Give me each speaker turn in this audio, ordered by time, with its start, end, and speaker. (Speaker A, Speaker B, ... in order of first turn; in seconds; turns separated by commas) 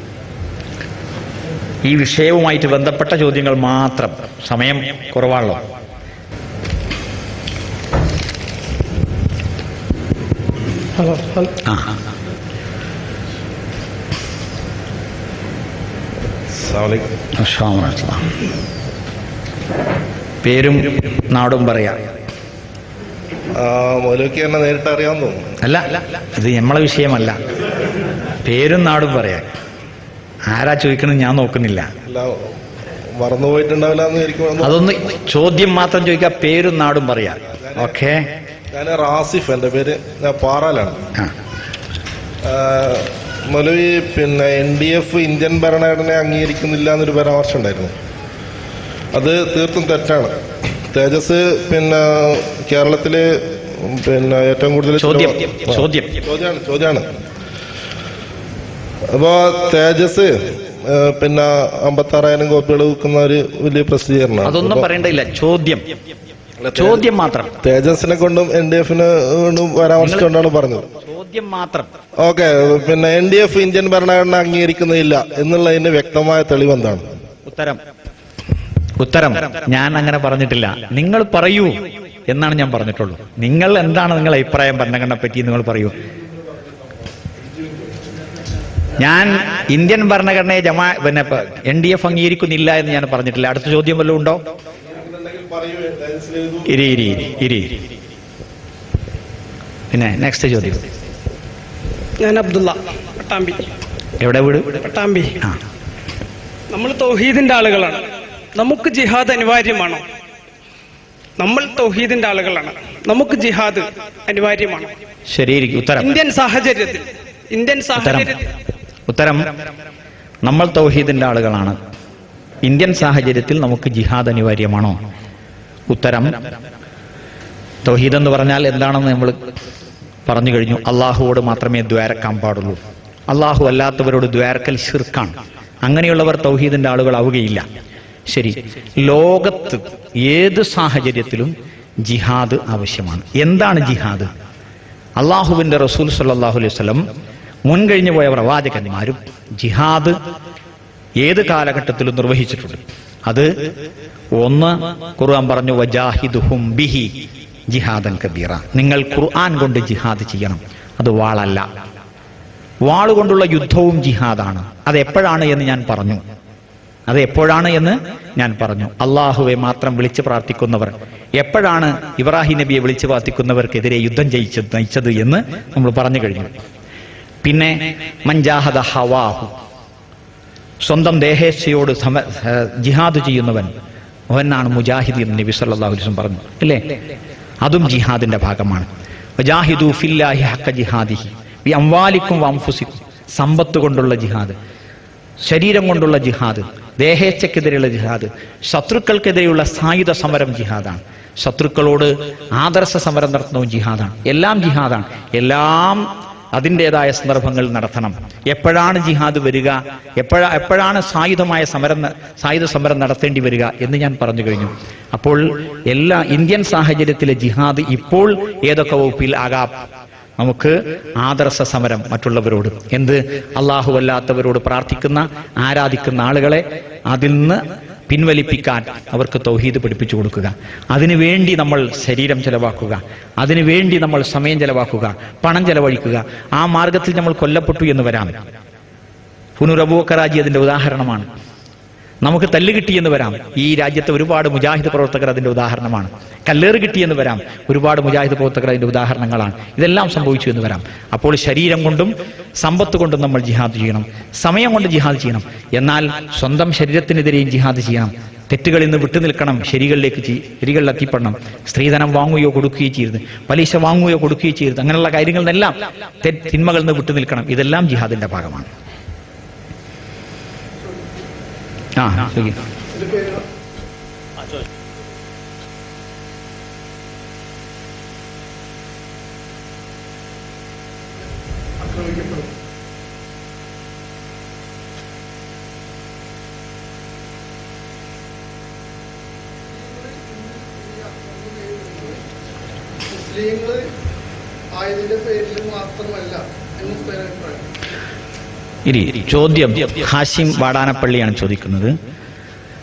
Speaker A: 1.8-5.6, Speaker B: 11.0-11.5, Speaker A: 11.6-11.9, Speaker C: 16.6-17.1, Speaker A: 17.4-18.3, Speaker A: 20.4-22.1, Speaker C: 23.5-25.5, Speaker A: 25.6-27.4, Speaker A: 28.4-29.5, Speaker A: 30.5-31.9, Speaker C: 32.1-32.5, Speaker C: 33.1-34.8, Speaker A: 34.6-38.3, Speaker C: 38.7-41.1, Speaker C: 42.4-47.9, Speaker C: 49.1-50.3, Speaker C: 50.9-57.1, Speaker A: 55.0-56.2, Speaker C: 59.1-64.9, Speaker A: 64.5-65.9, Speaker C: 66.6-67.0, Speaker A: 66.7-67.6, Speaker C: 67.6-70.9, Speaker A: 70.0-70.3, Speaker A: 71.0-71.9, Speaker C: 72.2-77.2, Speaker A: 77.5-77.8, Speaker A: 79.0-86.0, Speaker A: 89.0-94.4, Speaker C: 94.9-96.8, Speaker A: 96.7-97.8, Speaker A: 99.9-100.8, Speaker B: 102.2-103.6, Speaker A: 104.2-104.8, Speaker B: 104.8-105.4, Speaker B: 106.7-110.1, Speaker B: 111.4-114.9, Speaker A: 115.3-116.1, Speaker B: 116.0-118.4, Speaker A: 118.0-118.4, Speaker A: 119.1-119.6, Speaker A: 120.4-121.8, Speaker A: 122.6-125.0, Speaker A: 125.9-126.5, Speaker A: 127.8-129.4, Speaker A: 130.3-137.7, Speaker A: 138.3-144.3, Speaker A: 145.2-147.1, Speaker A: 147.7-150.2, Speaker A: 151.2-153.5, Speaker A: 154.3-157.1, Speaker A: 157.7-161.7, Speaker A: 162.8-166.2, Speaker A: 167.1-176.6, Speaker A: 177.4-179.5, Speaker A: 180.8-183.7, Speaker A: 184.3-186.8, Speaker A: 187.6-194.6, Speaker A: 195.4-219.8, Speaker A: 220.4-238.4, Speaker A: 239.6-241.3, Speaker A: 242.2-268.7, Speaker A: 272.0-272.6, Speaker D: 272.9-273.5, Speaker D: 281.8-282.5, Speaker D: 289.7-292.2, Speaker D: 293.1-293.9, Speaker D: 294.7-297.7, Speaker A: 298.9-302.0